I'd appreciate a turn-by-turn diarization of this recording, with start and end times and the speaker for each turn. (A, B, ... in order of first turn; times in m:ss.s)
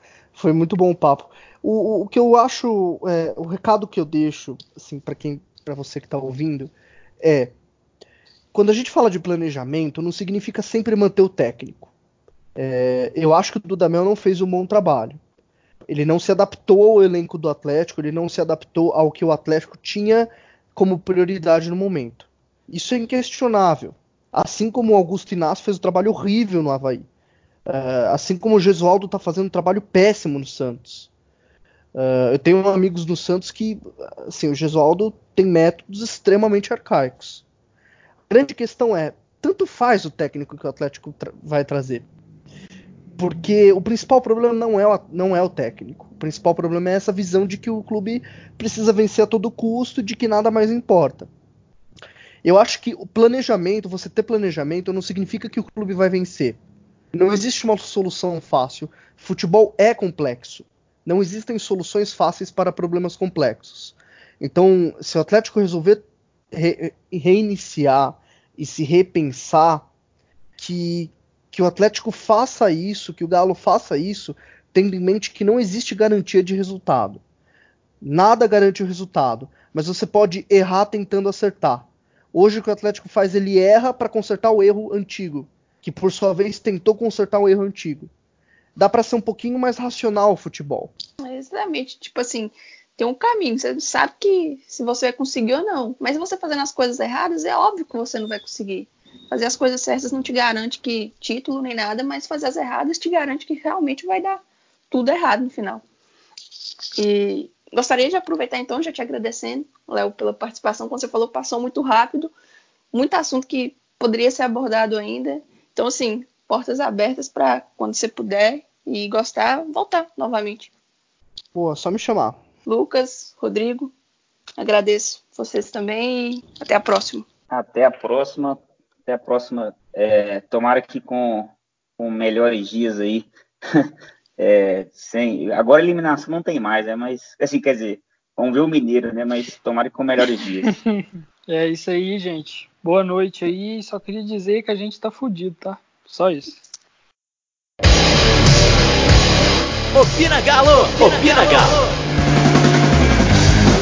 0:00.3-0:07.5 A
0:08.5-0:11.9 A
0:12.6-0:15.2 A
0:15.9-0:27.1 A
0:27.7-0:31.1 A
0:32.0-0:37.4 A
0:38.3-0:42.1 A
0:43.2-0:51.3 A
0:52.4-0:56.6 A
0:57.1-1:09.9 A
1:10.6-1:17.2 A
1:18.0-1:28.1 A
1:28.8-1:30.9 A
1:31.2-1:45.8 B
1:47.0-1:52.3 B
1:52.9-2:00.7 B
2:01.6-2:02.4 A
2:02.7-2:03.9 B
2:04.6-2:07.2 B
2:07.5-2:20.8 C
2:20.7-2:26.6 D
2:29.9-2:31.9 E